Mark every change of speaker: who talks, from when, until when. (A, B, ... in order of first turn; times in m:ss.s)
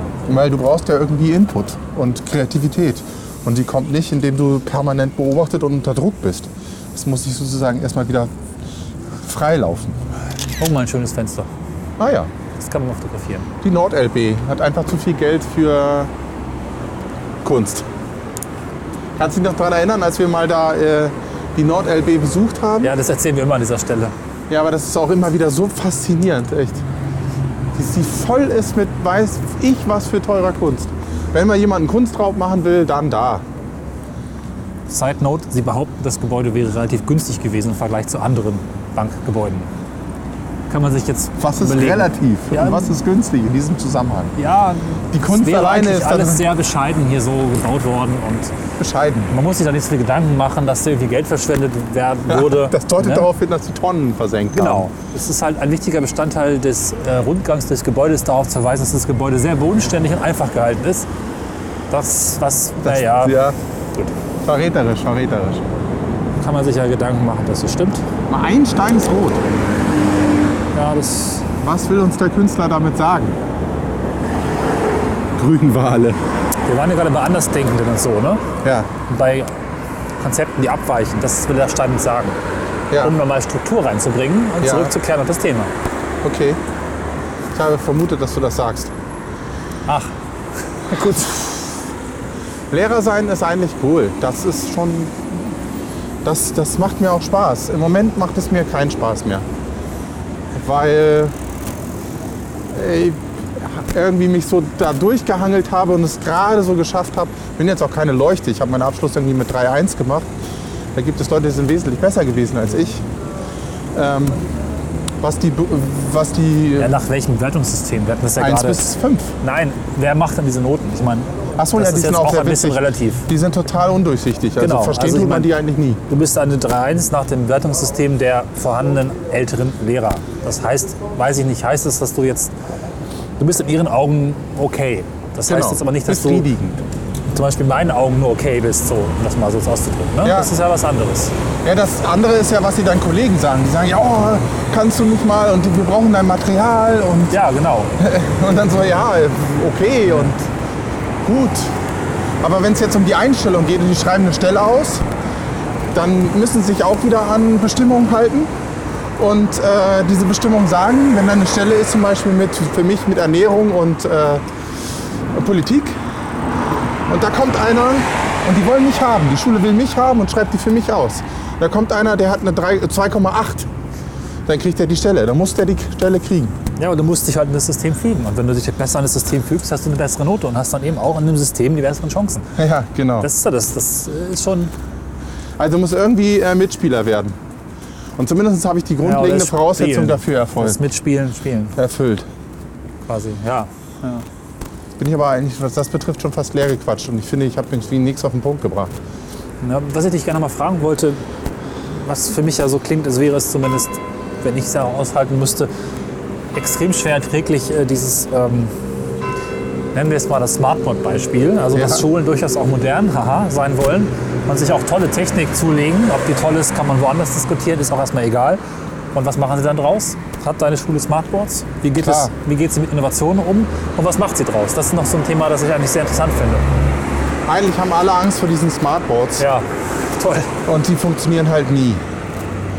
0:00.3-0:08.3 A
0:09.2-0:10.0 A
0:10.6-0:11.5 B
0:12.0-0:12.3 A
0:12.6-0:13.5 B
0:13.6-0:16.1 A
0:17.4-0:17.9 A
0:19.2-0:22.9 A
0:22.8-0:24.2 B
0:24.5-0:26.8 A
0:27.7-0:33.4 A
0:34.9-0:39.7 B
0:40.7-0:42.9 B
0:41.4-0:44.4 A
0:44.4-0:48.5 B
0:45.1-0:46.4 A
0:48.8-0:49.3 A
0:49.2-0:53.3 B
0:52.3-0:54.9 A
0:54.5-1:01.1 B
1:01.9-1:03.4 B
1:02.8-1:03.6 A
1:04.4-1:05.6 A
1:06.4-1:08.0 B
1:08.3-1:09.4 A
1:10.7-1:11.5 B
1:11.6-1:13.4 A
1:15.4-1:16.2 A
1:16.7-1:18.5 B
1:18.6-1:18.9 A
1:19.1-1:19.6 B
1:20.2-1:22.4 B
1:22.9-1:23.2 A
1:23.0-1:25.7 B
1:24.6-1:24.9 A
1:26.2-1:26.6 A
1:27.5-1:28.9 A
1:29.9-1:30.1 B
1:30.9-1:31.8 A
1:32.7-1:35.5 A
1:36.2-1:39.5 A
1:40.5-1:41.4 A
1:42.7-1:50.3 A
1:51.0-1:53.0 A
1:53.9-1:54.4 A
1:55.2-1:57.0 A
1:56.8-1:58.8 B
1:58.4-1:59.4 A
1:59.4-2:03.3 B
2:01.6-2:06.0 A
2:04.6-2:05.5 B
2:06.1-2:12.5 B
2:13.4-2:16.5 B
2:15.5-2:16.8 A
2:17.3-2:21.3 B
2:20.2-2:20.5 A
2:21.6-2:27.4 A
2:27.3-2:27.9 B
2:28.0-2:30.5 A
2:31.2-2:31.7 A
2:32.4-2:35.1 A
2:35.9-2:38.5 A
2:39.2-2:44.4 A
2:45.3-2:46.0 A
2:47.1-2:53.7 A
2:54.5-2:56.6 A
2:56.8-3:02.5 B
3:02.6-3:03.3 A
3:03.2-3:04.7 B
3:05.6-3:07.4 A
3:08.2-3:10.8 A
3:09.0-3:11.8 B
3:11.8-3:12.3 A
3:13.1-3:14.2 B
3:15.0-3:19.0 A
3:19.6-3:21.2 B
3:21.9-3:25.7 B
3:26.5-3:28.7 B
3:29.9-3:38.6 B
3:31.7-3:32.1 A
3:39.1-3:46.7 B
3:42.0-3:42.3 A
3:47.5-3:49.5 A
3:49.4-3:50.5 B
3:50.6-3:52.0 A